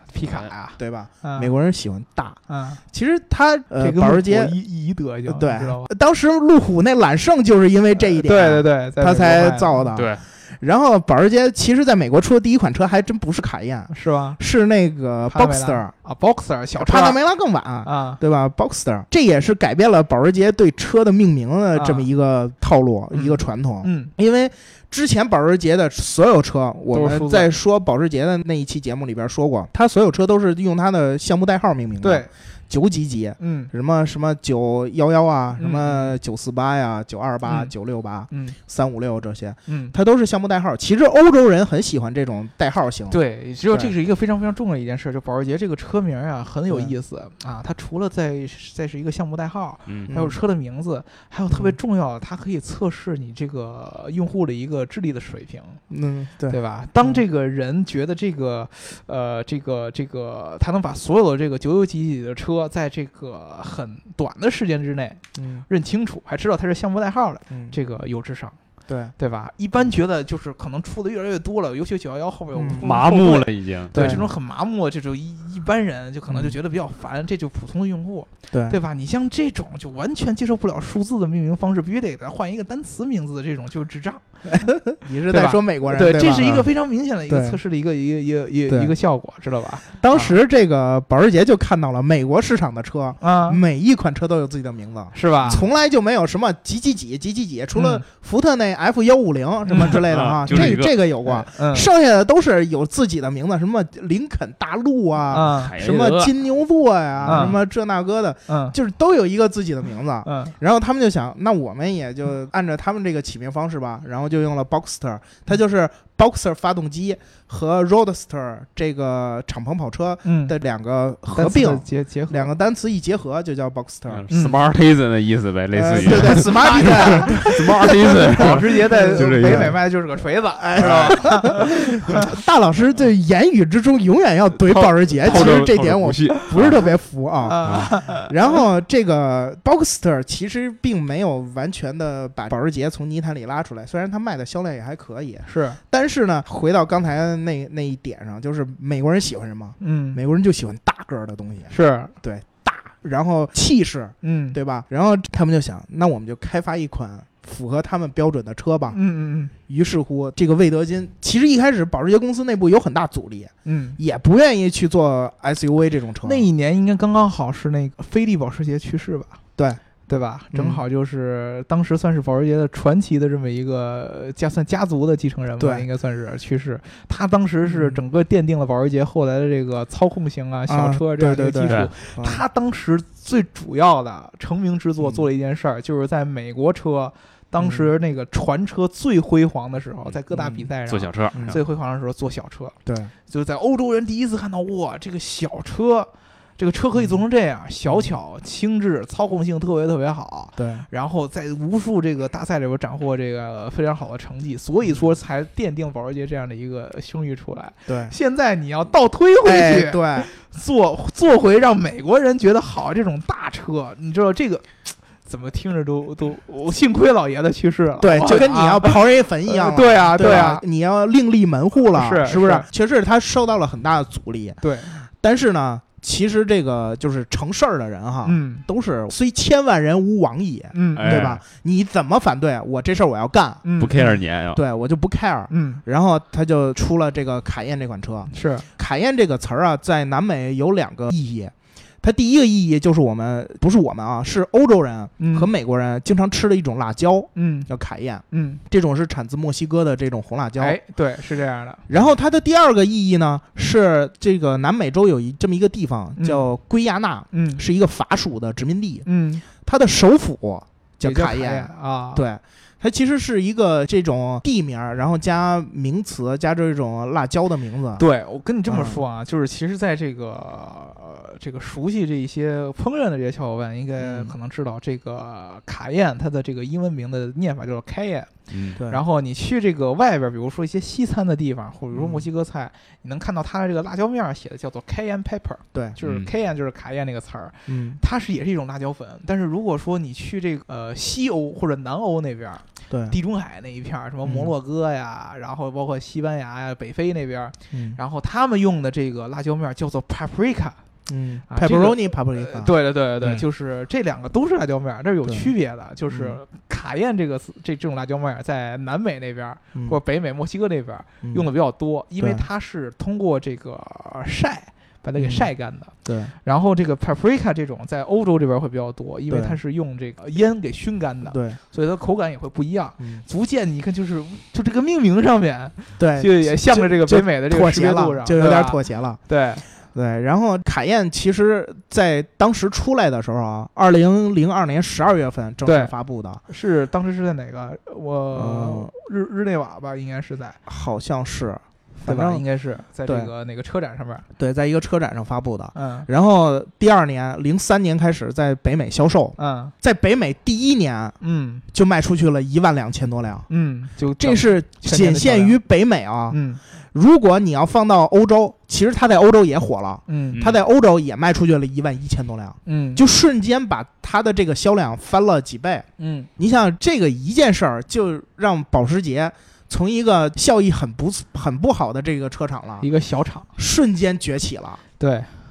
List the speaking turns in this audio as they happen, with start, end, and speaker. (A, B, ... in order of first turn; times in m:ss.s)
0:00.1-0:01.5 A
0:00.3-0:00.5 B
0:00.8-0:02.4 C
0:02.5-0:02.8 A
0:02.9-0:04.6 C
0:03.8-0:05.9 A
0:05.3-0:15.9 C
0:08.2-0:09.9 A
0:09.9-0:10.2 B
0:13.9-0:14.4 A
0:15.3-0:17.2 A
0:16.8-0:43.2 C
0:17.8-0:18.2 A
0:21.8-0:22.1 A
0:23.1-0:24.1 A
0:26.9-0:27.5 A
0:32.0-0:32.3 A
0:33.4-0:33.7 A
0:35.6-0:36.2 A
0:37.4-0:37.7 A
0:38.3-0:38.6 A
0:39.7-0:40.0 A
0:43.1-0:55.8 A
0:49.9-0:50.1 B
0:50.1-0:50.4 C
0:51.5-0:51.8 C
0:55.9-0:57.2 C
0:56.5-1:08.6 A
1:05.4-1:05.7 C
1:07.5-1:07.8 C
1:08.9-1:09.2 C
1:09.2-1:24.7 A
1:12.6-1:12.9 C
1:12.8-1:14.2 B
1:13.9-1:14.3 C
1:16.3-1:16.6 C
1:18.5-1:18.8 C
1:24.5-1:26.7 C
1:25.3-1:30.4 A
1:27.3-1:27.6 C
1:28.7-1:28.9 C
1:30.0-2:04.2 C
1:33.2-1:33.6 A
1:35.1-1:35.6 A
1:37.7-1:38.0 A
1:39.7-1:41.9 A
1:40.0-1:40.9 B
1:45.3-1:45.8 A
1:45.5-1:46.3 B
1:47.2-1:47.6 B
1:47.3-1:47.6 A
1:48.5-1:48.8 A
1:50.2-1:50.5 A
2:00.2-2:00.6 A
2:01.3-2:02.5 A
2:04.1-2:09.8 B
2:04.3-2:04.6 A
2:05.7-2:09.8 C
2:06.0-2:12.2 A
2:10.6-2:39.0 C
2:10.8-2:11.5 B
2:14.7-2:16.9 B
2:15.2-2:15.7 A
2:17.4-2:18.3 A
2:17.6-2:17.9 B
2:25.5-2:25.8 A
2:29.8-2:30.2 A
2:31.7-2:32.1 A
2:34.2-2:34.6 A
2:38.9-2:39.5 A
2:39.7-2:46.5 C
2:43.6-2:44.0 A
2:46.2-2:49.4 A
2:50.1-3:12.8 A
2:50.5-2:50.8 C
2:55.6-2:55.9 C
2:57.6-2:58.0 C
3:00.7-3:02.4 C
3:07.6-3:07.9 C
3:10.3-3:10.7 C
3:10.9-3:11.6 B
3:11.3-3:11.6 C
3:12.9-3:13.1 C
3:13.3-3:40.6 A
3:17.0-3:17.2 C
3:17.9-3:18.1 C
3:20.6-3:20.9 C
3:27.9-3:28.1 C
3:29.4-3:30.3 C
3:38.0-4:10.8 C
3:41.9-3:42.7 A
3:44.6-3:45.0 A
3:48.2-3:48.6 A
3:50.7-3:51.3 A
3:51.0-3:51.4 B
3:53.6-3:54.0 A
3:53.8-3:54.6 B
3:55.5-3:55.8 A
3:58.3-3:58.7 A
4:05.2-4:05.5 A
4:07.4-4:07.7 A
4:08.3-4:08.6 A
4:10.6-4:11.8 A
4:11.9-4:19.1 C
4:16.2-4:16.5 A
4:17.3-4:17.6 A
4:19.0-4:19.4 A
4:19.6-4:28.0 C
4:21.0-4:22.2 A
4:28.0-5:00.8 A
4:28.7-4:29.0 C
4:34.0-4:34.3 C
4:38.5-4:38.8 B
4:38.8-4:39.0 C
4:41.9-4:42.3 C
4:46.0-4:46.3 B
4:47.7-4:48.0 C
4:52.9-4:53.2 C
4:54.2-4:54.5 C
4:57.7-4:58.0 C
5:01.1-5:03.4 C
5:01.5-5:29.6 A
5:05.3-5:05.5 C
5:06.1-5:06.4 C
5:11.2-5:11.5 C
5:12.2-5:12.4 C
5:15.2-5:15.5 C
5:16.0-5:16.3 C
5:19.3-5:19.6 C
5:21.3-5:21.6 C
5:23.0-5:23.2 C
5:26.0-5:29.2 C
5:29.9-5:36.4 C
5:35.6-5:35.9 A
5:36.5-5:40.6 A
5:38.3-5:38.9 C
5:40.7-5:42.4 C
5:42.0-5:44.3 A
5:43.1-5:43.3 C
5:44.4-5:51.2 C
5:45.8-5:46.1 A
5:49.4-5:49.7 A
5:51.2-5:51.6 A
5:51.7-5:53.5 C
5:53.5-5:55.6 A
5:54.2-5:56.4 C
5:56.3-5:56.6 A
5:56.9-6:05.9 C
6:00.1-6:00.4 A
6:02.7-6:03.0 A
6:06.0-6:06.3 A
6:06.4-6:12.9 C
6:12.8-6:13.5 A
6:13.6-6:14.8 C
6:15.0-6:15.3 A